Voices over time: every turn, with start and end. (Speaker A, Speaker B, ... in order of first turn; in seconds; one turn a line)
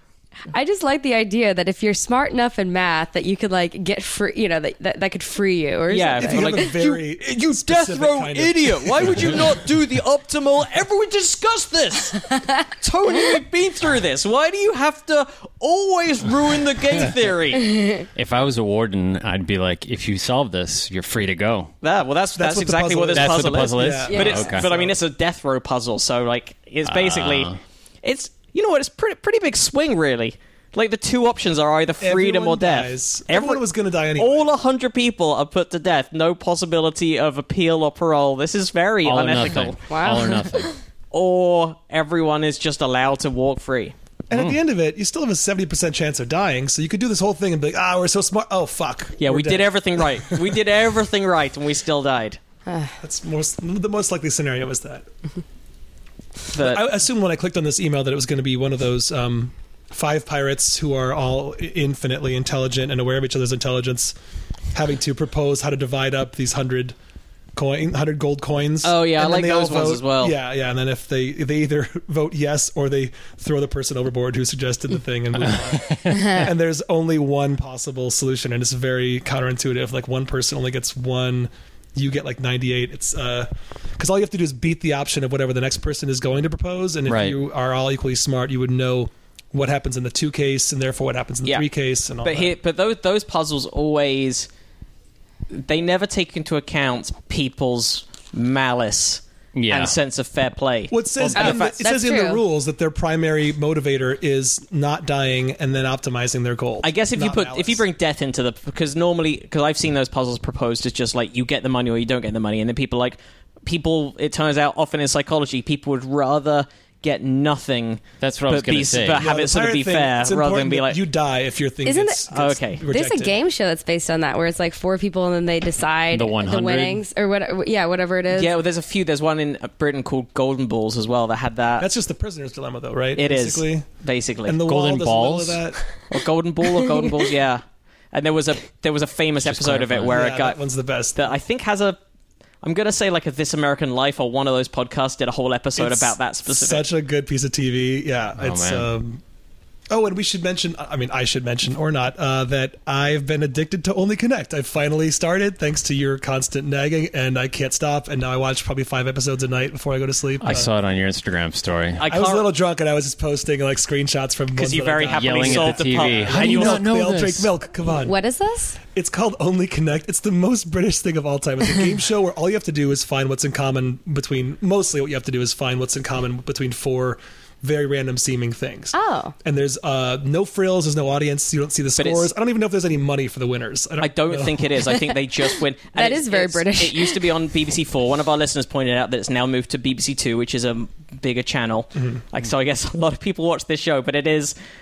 Speaker A: 0.5-6.7
Speaker B: 5.9-17.8
Speaker C: 6.2-9.6
Speaker D: 18.1-21.7
Speaker B: 21.8-33.6
Speaker C: 22.4-24.9
Speaker D: 23.1-24.7
Speaker A: 24.1-24.5
Speaker D: 26.9-27.6
Speaker C: 32.0-34.5
Speaker B: 34.1-39.8
Speaker D: 39.0-40.7
Speaker A: 39.9-40.7
Speaker B: 41.1-43.9
Speaker C: 44.3-50.6
Speaker B: 49.2-52.4
Speaker A: 52.7-52.9
Speaker C: 53.0-55.0
Speaker B: 56.5-56.9
Speaker C: 56.5-64.1
Speaker C: 64.7-66.9
Speaker C: 67.5-92.5
Speaker B: 68.8-70.3
Speaker D: 75.8-76.4
Speaker D: 87.1-87.3
Speaker B: 92.2-94.5
Speaker B: 95.5-101.7
Speaker D: 99.5-99.9
Speaker C: 100.9-107.8
Speaker A: 101.3-102.4
Speaker B: 106.8-121.0
Speaker D: 118.2-119.2
Speaker C: 119.1-123.4
Speaker A: 121.8-122.2
Speaker B: 122.3-122.8
Speaker A: 122.9-128.5
Speaker D: 126.1-127.0
Speaker B: 128.3-131.9
Speaker C: 131.8-133.8
Speaker B: 133.2-134.6
Speaker C: 134.4-135.8
Speaker D: 134.7-135.6
Speaker B: 136.1-137.6
Speaker B: 138.1-140.6
Speaker D: 139.4-140.2
Speaker C: 140.1-141.3
Speaker B: 141.1-142.0
Speaker B: 142.6-146.8
Speaker C: 145.8-149.2
Speaker D: 148.4-148.9
Speaker C: 149.9-160.7
Speaker D: 160.4-162.0
Speaker B: 162.0-162.5
Speaker C: 162.1-168.2
Speaker B: 164.6-166.8
Speaker D: 165.1-167.5
Speaker A: 168.0-168.8
Speaker C: 168.9-184.8
Speaker A: 178.9-179.3
Speaker B: 182.0-182.3
Speaker B: 184.0-194.5
Speaker A: 185.9-187.2